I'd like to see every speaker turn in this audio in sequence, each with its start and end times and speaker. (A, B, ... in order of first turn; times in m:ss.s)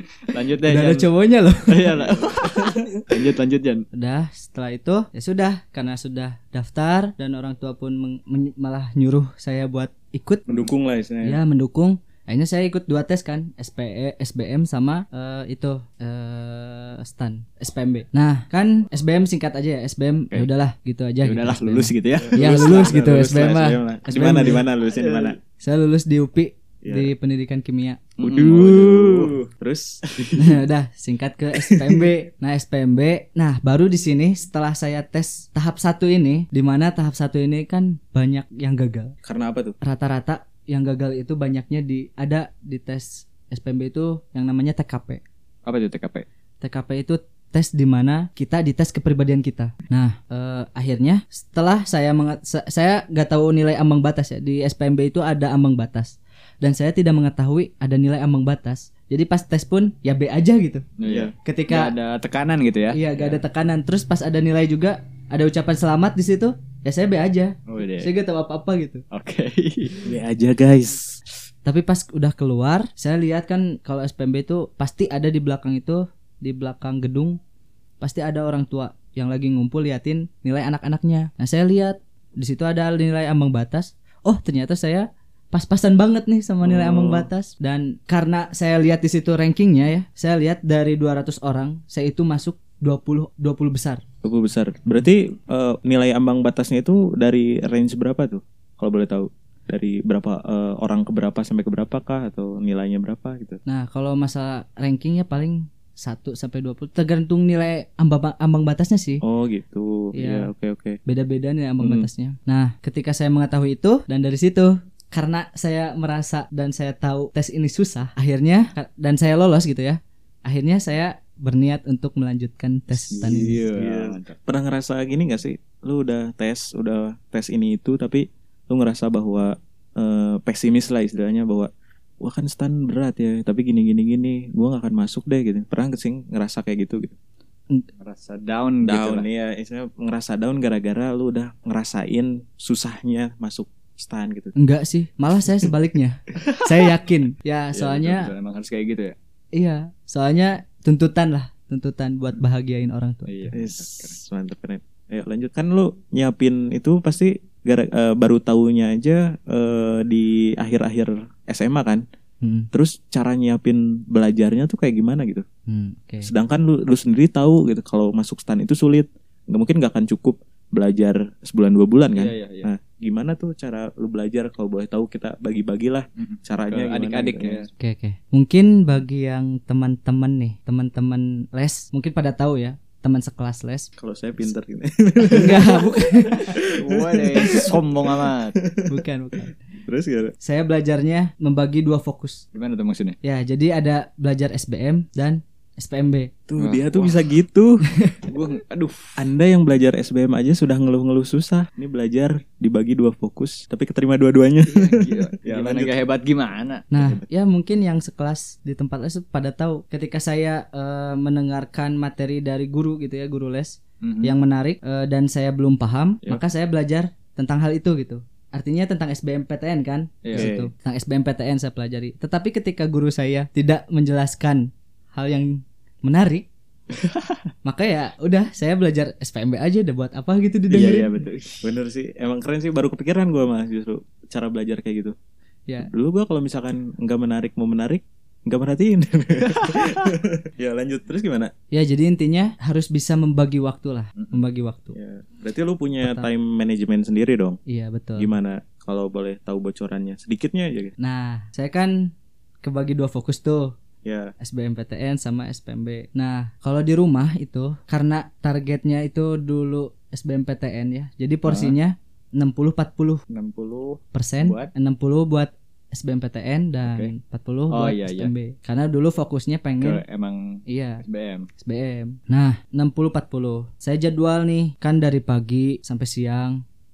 0:00.3-0:01.1 A
0:00.6-0:02.0 B
0:01.7-0:03.8 A
0:02.0-0:03.0 C
0:03.9-0:10.5 B
0:10.5-0:11.4 C
0:11.2-0:24.7 B
0:21.2-0:22.9 A
0:22.2-0:25.4 C
0:24.9-0:25.4 A
0:25.6-0:28.0 B
0:26.8-0:27.1 C
0:28.2-0:29.4 A
0:28.2-0:30.5 C
0:30.4-0:39.1 B
0:39.2-0:39.8 C
0:39.8-0:45.2 B
0:45.6-0:46.2 A
0:46.6-1:00.8 B
1:01.0-1:03.4 A
1:01.1-1:01.3 C
1:01.4-1:01.9 B
1:02.9-1:09.0 B
1:07.7-1:08.1 A
1:09.1-1:10.0 A
1:10.0-1:11.2 C
1:11.6-1:17.4 B
1:18.0-1:34.0 B
1:26.6-1:27.3 C
1:34.2-1:43.6 C
1:43.6-1:49.2 B
1:49.2-1:51.0 C
1:50.1-1:50.5 B
1:51.0-2:03.6 B
1:51.8-1:52.1 C
2:02.9-2:04.4 A
2:03.7-2:11.7 C
2:12.2-2:17.1 C
2:18.0-2:19.3 A
2:18.8-2:24.5 C
2:24.6-2:28.3 B
2:27.7-2:29.1 A
2:29.5-2:33.5 B
2:33.3-2:34.2 A
2:33.5-2:42.0 C
2:42.4-2:42.7 B
2:42.7-2:45.4 C
2:45.7-2:46.3 B
2:46.2-2:57.7 C
2:52.1-2:52.7 A
2:56.2-2:57.7 A
2:57.8-3:03.9 B
3:04.0-3:08.9 C
3:05.3-3:06.6 B
3:06.4-3:08.6 A
3:08.9-3:09.6 B
3:09.8-3:10.3 C
3:10.4-3:12.4 B
3:12.5-3:13.2 A
3:13.2-3:16.3 B
3:16.5-3:17.8 C
3:16.6-3:17.3 A
3:17.9-3:18.2 B
3:18.3-3:19.2 A
3:19.2-3:25.9 C
3:24.6-3:27.2 A
3:26.9-3:46.5 B
3:34.0-3:34.3 A
3:40.2-3:40.5 A
3:40.3-3:40.7 C
3:46.9-3:47.4 A
3:47.6-3:51.2 B
3:50.7-3:51.7 A
3:50.8-3:51.0 C
3:51.6-3:55.1 C
3:55.8-4:01.5 C
3:59.5-4:00.1 A
4:01.7-4:05.0 B
4:04.9-4:07.6 C
4:06.0-4:06.3 B
4:07.7-4:08.3 B
4:08.2-4:10.9 C
4:11.0-4:12.1 B
4:12.6-4:13.7 B
4:14.0-4:14.3 C
4:14.4-4:23.2 B
4:21.4-4:21.8 A
4:23.3-4:24.7 A
4:24.1-4:30.0 B
4:26.8-4:27.1 A
4:27.7-4:28.3 A
4:29.8-4:31.5 A
4:30.7-4:31.0 B
4:31.6-4:36.6 B